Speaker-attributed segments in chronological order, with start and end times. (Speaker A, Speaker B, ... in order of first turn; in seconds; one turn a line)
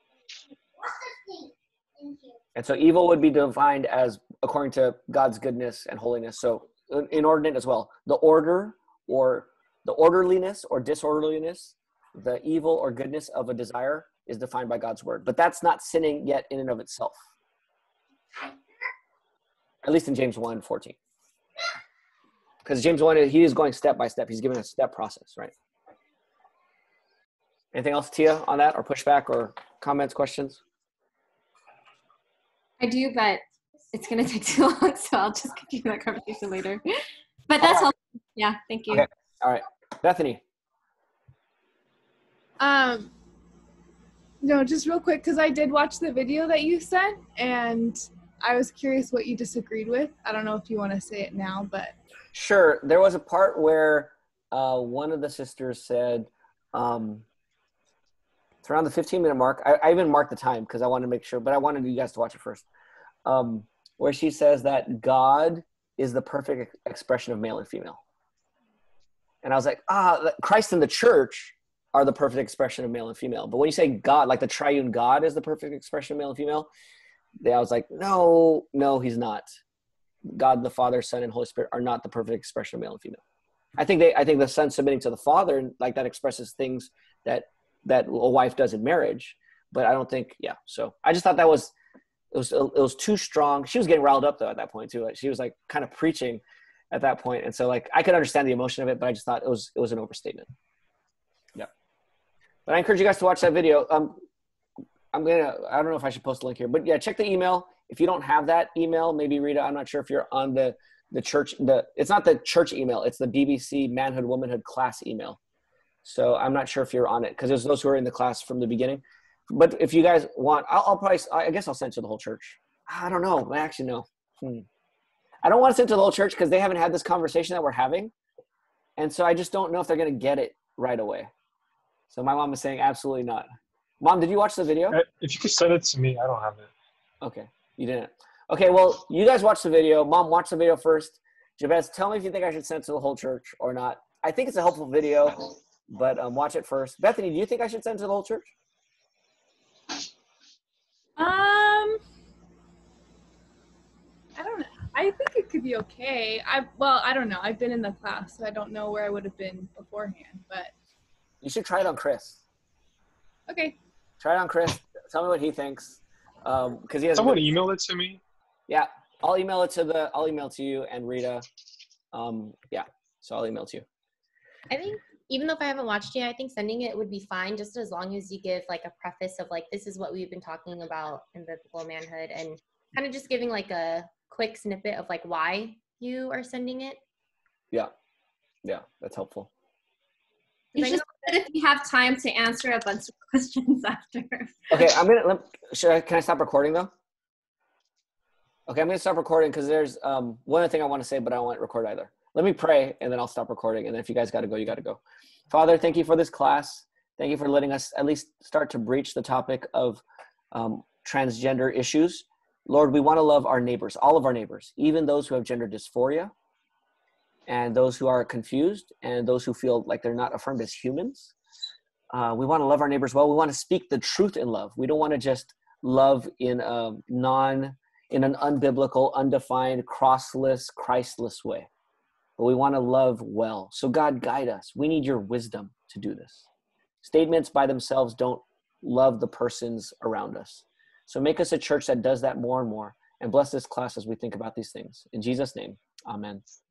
Speaker A: 2.5-17.2
Speaker A: 19.8-21.0
Speaker A: 22.6-25.5
Speaker A: 27.7-30.6
Speaker B: 32.8-33.4
Speaker B: 33.9-36.8
Speaker B: 37.5-39.0
Speaker A: 37.6-37.9
Speaker A: 38.9-40.4
Speaker C: 42.6-43.1
Speaker C: 44.4-52.0
Speaker A: 52.3-57.2
Speaker A: 58.6-62.6
Speaker A: 63.2-68.0
Speaker A: 69.4-76.7
Speaker A: 77.4-79.5
Speaker A: 80.3-83.2
Speaker A: 83.8-91.7
Speaker A: 92.3-100.5
Speaker A: 102.7-104.2
Speaker A: 105.1-115.4
Speaker A: 116.0-124.7
Speaker A: 125.4-128.1
Speaker A: 129.0-131.3
Speaker A: 132.1-133.5
Speaker A: 134.0-135.0
Speaker D: 134.9-136.7
Speaker A: 137.2-148.5
Speaker C: 151.2-152.0
Speaker C: 154.3-160.7
Speaker A: 161.4-162.4
Speaker C: 163.5-163.8
Speaker A: 164.2-167.5
Speaker D: 167.1-168.2
Speaker A: 168.7-171.4
Speaker A: 172.1-173.8
Speaker E: 174.7-187.0
Speaker A: 188.6-189.5
Speaker B: 190.7-194.9
Speaker E: 190.8-191.1
Speaker A: 194.7-196.9
Speaker A: 198.7-216.3
Speaker A: 217.5-221.3
Speaker A: 222.1-231.7
Speaker A: 232.4-236.5
Speaker A: 237.0-246.4